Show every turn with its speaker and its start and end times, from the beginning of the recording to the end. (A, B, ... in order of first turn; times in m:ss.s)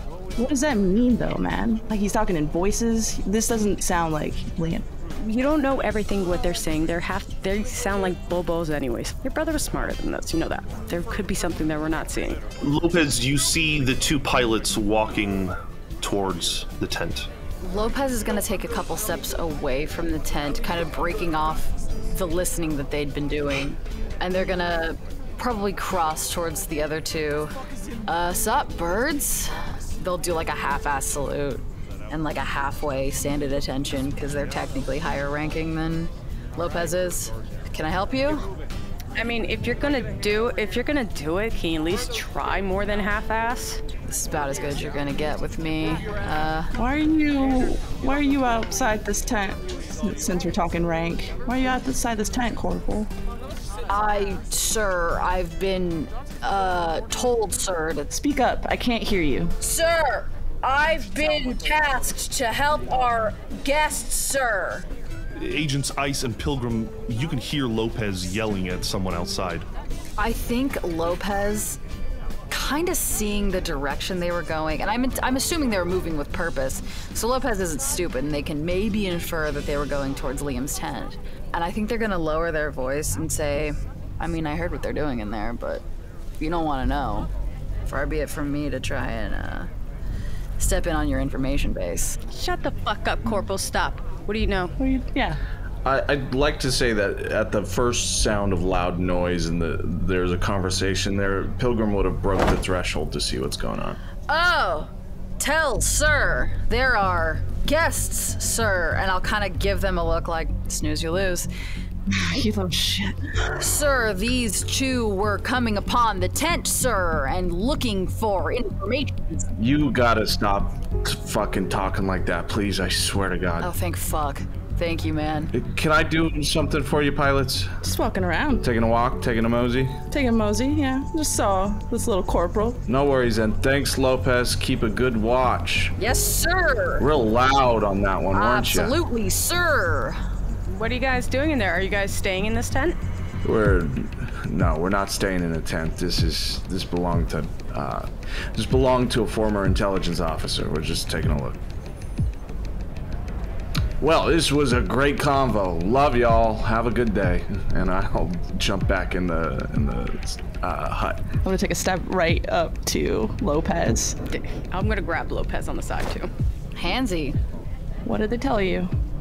0:00.4-0:04.9 A
0:05.2-0:12.4 B
0:12.6-0:17.3 C
0:17.6-0:27.5 D
0:28.1-0:38.4 D
0:39.2-0:43.8 B
0:44.1-0:46.7 D
0:46.8-0:53.1 A
0:53.9-0:58.1 D
0:58.1-0:59.6 A
0:59.6-1:04.9 D
1:05.4-1:09.7 C
1:10.2-1:11.8 D
1:12.5-1:25.8 D
1:26.4-1:27.3 D
1:27.9-1:29.7 D
1:30.6-1:32.2 D
1:32.3-1:34.7 B
1:34.8-1:35.4 A
1:35.8-1:44.0 E
1:44.3-1:51.5 D
1:52.1-1:53.4 A
1:53.6-1:59.5 D
1:59.6-2:03.7 E
2:03.6-2:05.5 D
2:05.5-2:07.8 E
2:07.8-2:08.7 A
2:08.6-2:10.0 E
2:10.1-2:12.8 A
2:12.9-2:16.0 E
2:16.0-2:17.1 D
2:17.0-2:19.0 E
2:18.3-2:20.2 D
2:20.7-2:23.0 B
2:23.4-2:31.6 E
2:34.0-2:41.2 E
2:41.4-2:44.2 A
2:44.3-2:46.3 B
2:46.8-2:47.4 D
2:48.0-2:48.9 A